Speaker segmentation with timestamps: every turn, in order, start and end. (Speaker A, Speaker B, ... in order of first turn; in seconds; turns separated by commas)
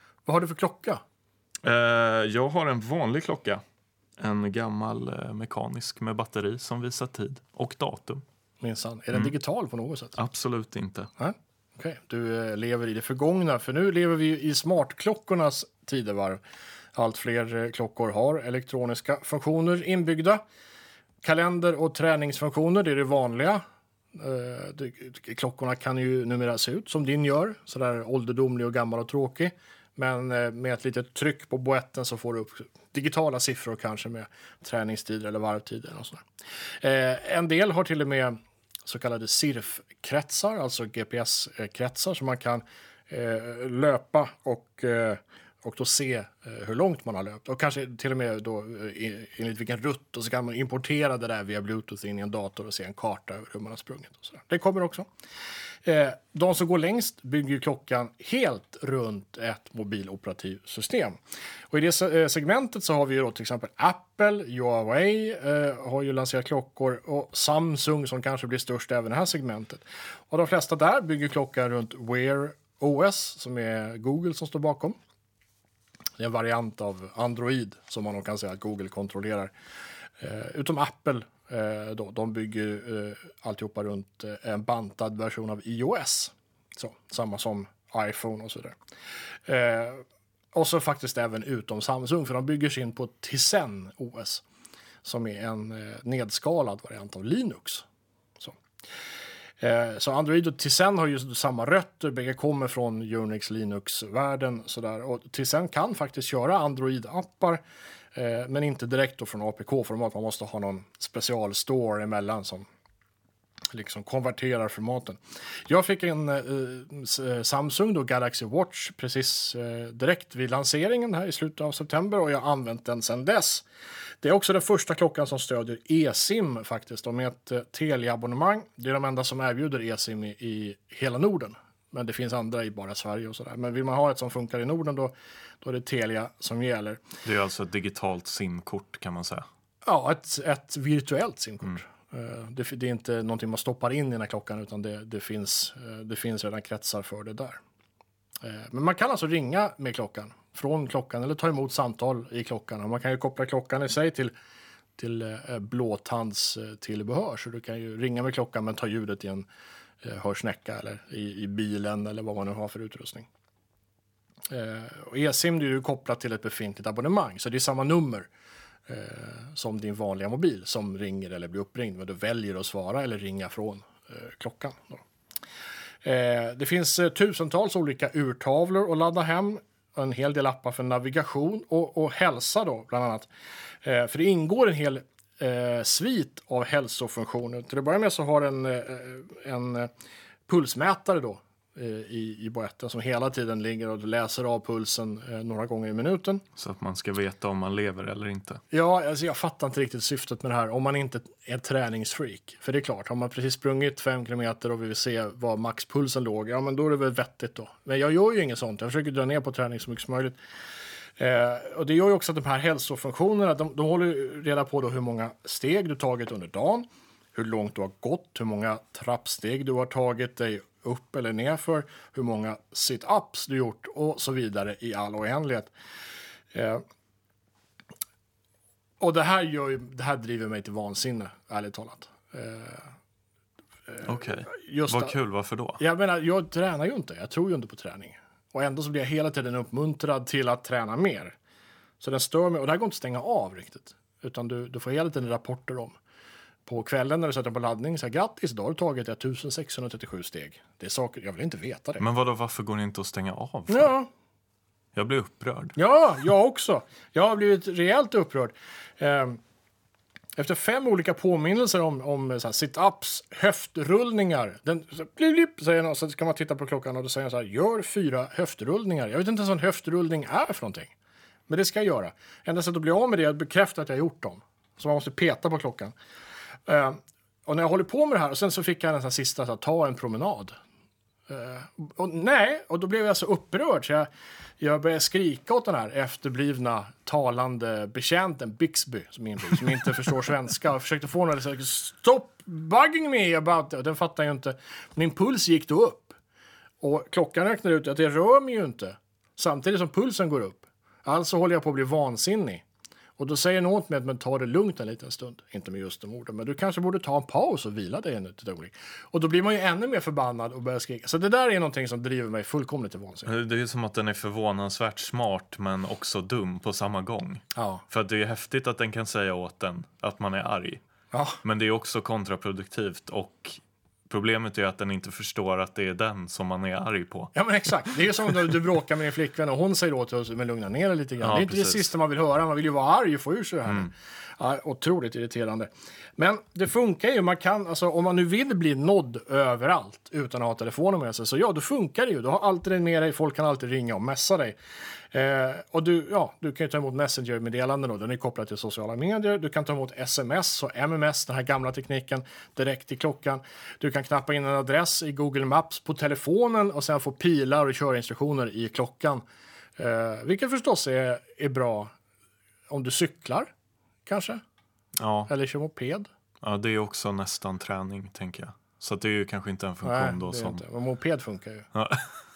Speaker A: 0.3-1.0, Speaker B: 1.6-3.6, Speaker B: 4.2-8.2, Speaker A: 8.6-10.2, Speaker B: 10.2-11.1, Speaker A: 11.2-16.4, Speaker A: 16.9-20.4, Speaker A: 21.2-36.2, Speaker A: 36.8-55.1, Speaker A: 55.9-61.2, Speaker A: 61.7-75.0, Speaker A: 76.2-79.5, Speaker A: 80.2-88.8, Speaker A: 89.5-94.4, Speaker A: 95.0-97.9, Speaker A: 99.6-107.6, Speaker A: 108.1-112.7, Speaker A: 113.7-123.6, Speaker A: 124.2-137.0, Speaker B: 137.2-139.5, Speaker A: 139.8-147.6, Speaker A: 148.4-154.3, Speaker A: 155.0-159.5, Speaker A: 160.0-163.3, Speaker A: 164.5-168.3, Speaker A: 168.9-175.0, Speaker A: 176.0-183.3, Speaker A: 183.8-189.9, Speaker A: 190.5-196.4, Speaker B: 196.6-198.6, Speaker A: 198.7-210.4, Speaker A: 211.2-225.7, Speaker A: 226.5-226.8, Speaker A: 229.0-232.9, Speaker A: 233.9-235.1, Speaker B: 234.1-235.8, Speaker A: 235.8-241.3, Speaker A: 242.0-246.0, Speaker A: 246.7-252.0, Speaker B: 252.0-253.9, Speaker A: 253.7-254.1, Speaker B: 254.9-255.8, Speaker A: 255.8-259.4, Speaker A: 260.4-270.9, Speaker A: 271.5-275.9, Speaker A: 276.7-280.6, Speaker A: 281.3-284.1, Speaker A: 284.6-296.1, Speaker A: 296.8-302.6, Speaker A: 303.2-313.3, Speaker B: 313.3-320.8, Speaker A: 317.6-317.8, Speaker A: 321.1-321.4, Speaker B: 321.4-328.4, Speaker A: 327.4-344.6, Speaker B: 331.2-331.9, Speaker A: 345.1-359.2, Speaker A: 359.8-361.9, Speaker A: 362.7-363.5, Speaker A: 364.1-364.4, Speaker B: 365.0-365.3, Speaker A: 365.3-366.1, Speaker B: 366.4-370.6, Speaker A: 369.8-371.7, Speaker B: 371.7-372.1